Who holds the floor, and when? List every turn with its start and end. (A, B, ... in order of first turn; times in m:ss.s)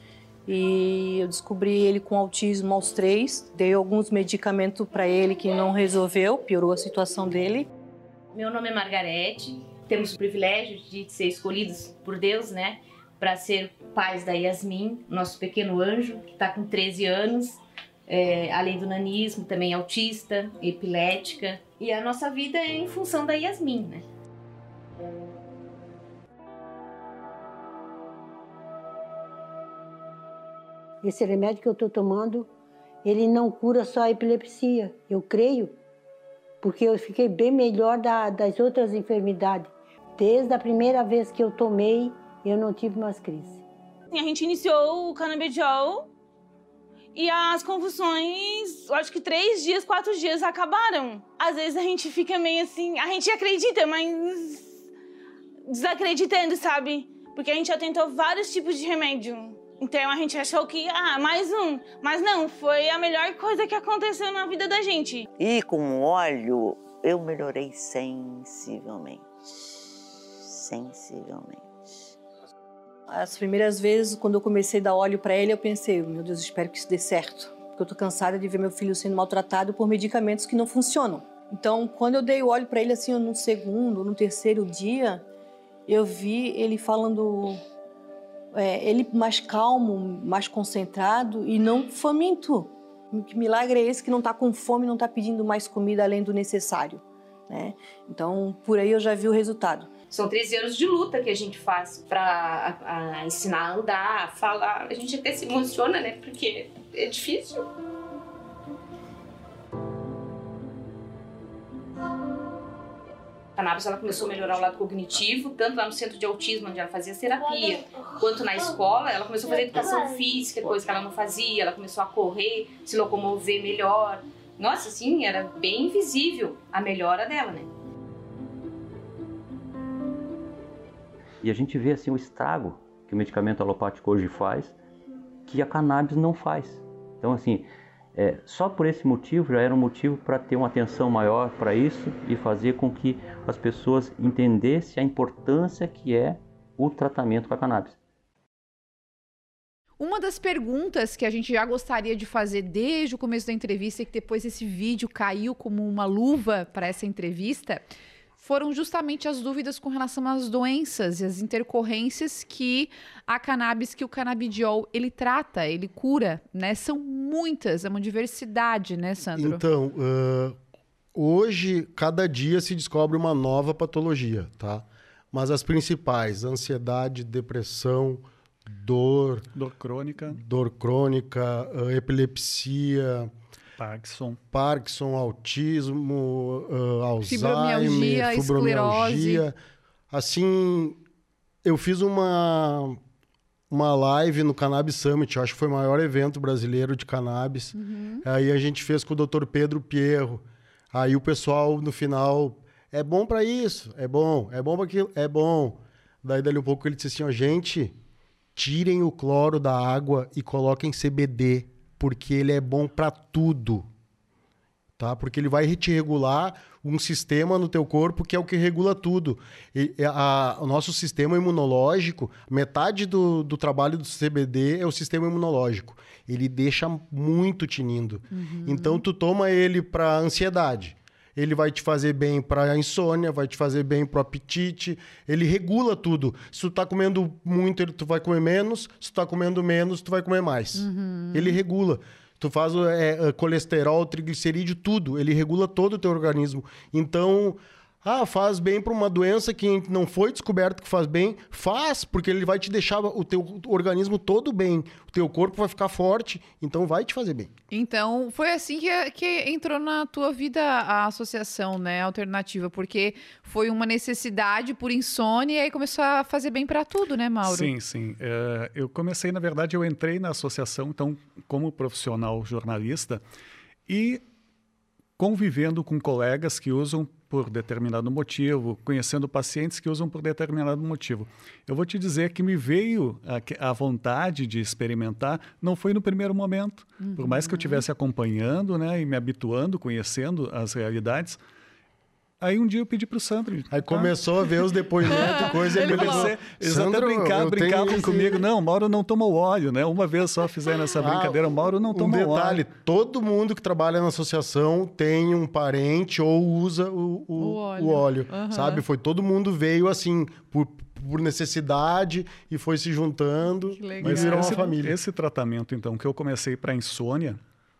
0:00.4-0:07.7 A
0:08.3-0:24.0 B
0:31.0-0:32.5 C
0:33.0-0:35.8 C
0:36.6-0:43.6 C
0:44.1-0:46.1 D
0:47.1-0:54.7 D
0:55.6-1:05.3 D
1:05.4-1:09.2 E
1:10.4-1:11.6 E
1:13.1-1:25.2 A
1:25.9-1:27.6 A
1:28.5-1:39.9 A
1:40.1-1:47.7 B
1:53.6-2:07.7 B
2:11.4-2:14.8 F
2:15.5-2:28.0 F
2:30.0-2:37.8 G
2:38.4-2:49.6 G
2:49.4-2:50.6 H
2:51.1-2:59.5 H
2:59.5-3:00.4 I
3:00.2-3:03.3 H
3:03.8-3:04.4 I
3:04.5-3:09.6 H
3:07.2-3:09.4 G
3:10.1-3:11.0 H
3:11.6-3:13.0 H
3:13.7-3:28.0 H
3:17.7-3:18.2 G
3:28.6-3:33.9 H
3:35.0-4:17.5 H
3:48.3-3:49.0 G
4:00.7-4:01.6 G
4:17.7-4:27.7 G
4:27.4-4:33.2 I
4:33.9-4:34.2 I
4:35.2-4:51.4 I
4:47.0-4:47.8 G
4:52.4-4:54.1 I
4:53.7-4:58.4 H
4:55.0-5:02.6 I
4:55.1-4:56.3 G
5:01.0-5:15.0 H
5:07.4-5:08.8 G
5:13.7-5:14.7 G
5:14.0-5:17.4 I